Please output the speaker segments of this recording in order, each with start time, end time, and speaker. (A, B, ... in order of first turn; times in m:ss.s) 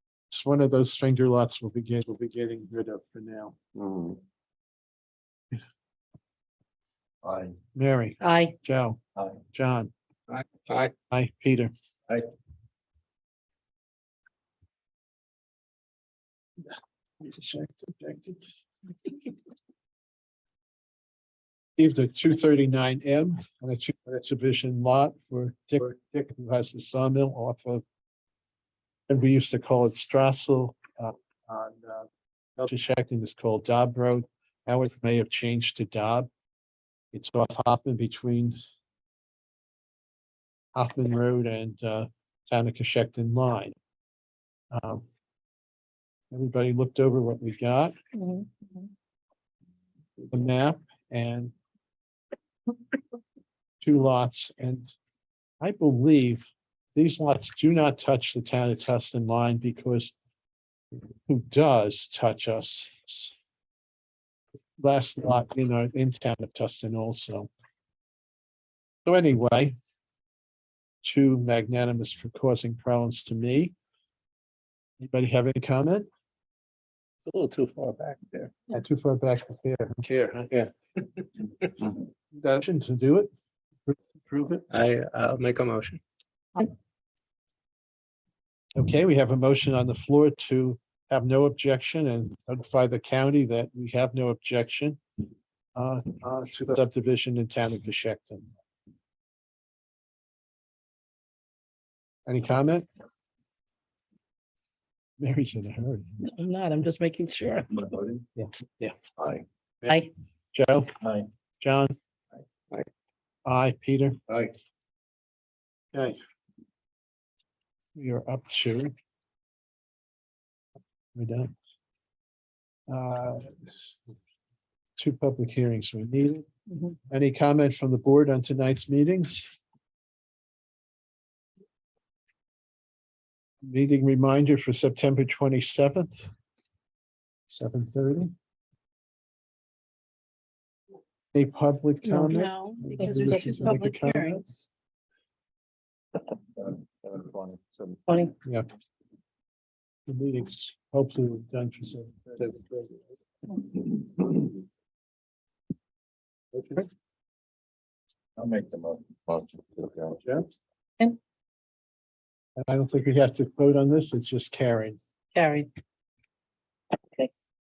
0:00.3-0:03.6 A
0:03.8-0:04.2 B
0:07.2-0:07.5 B
0:07.7-0:09.0 A
0:08.2-0:08.5 C
0:09.5-0:09.9 A
0:11.1-0:11.7 A
0:17.2-0:18.4 A
0:21.8-0:27.8 A
0:29.1-0:32.1 A
0:32.6-0:36.3 A
0:37.1-0:38.6 A
0:40.7-0:43.7 A
0:44.7-0:45.1 A
0:46.3-0:47.9 A
0:48.1-0:48.9 C
0:50.3-0:51.5 A
0:53.8-0:54.9 A
0:55.6-1:00.1 A
1:01.2-1:03.3 A
1:04.8-1:07.5 A
1:09.0-1:09.7 A
1:11.0-1:13.7 A
1:15.0-1:16.1 A
1:17.3-1:18.5 D
1:18.7-1:20.5 A
1:22.3-1:23.3 A
1:23.9-1:24.6 A
1:24.7-1:26.0 D
1:28.7-1:35.0 A
1:35.7-1:38.5 A
1:42.2-1:42.9 A
1:45.2-1:46.3 A
1:46.2-1:47.7 C
1:47.7-1:48.2 B
1:48.4-1:49.0 A
1:49.2-1:49.4 B
1:50.5-1:50.9 A
1:51.0-1:51.3 B
1:51.6-1:52.0 A
1:53.4-1:54.2 A
1:58.0-1:58.9 A
2:01.1-2:01.5 A
2:02.9-2:03.5 A
2:05.0-2:06.5 A
2:07.1-2:09.5 A
2:13.6-2:16.3 A
2:17.5-2:18.3 A
2:21.3-2:24.4 A
2:22.0-2:24.6 C
2:26.6-2:28.1 B
2:28.1-2:28.3 C
2:30.1-2:33.0 A
2:36.5-2:36.9 A
2:38.4-2:40.2 B
2:42.6-2:45.0 A
2:45.3-2:45.7 C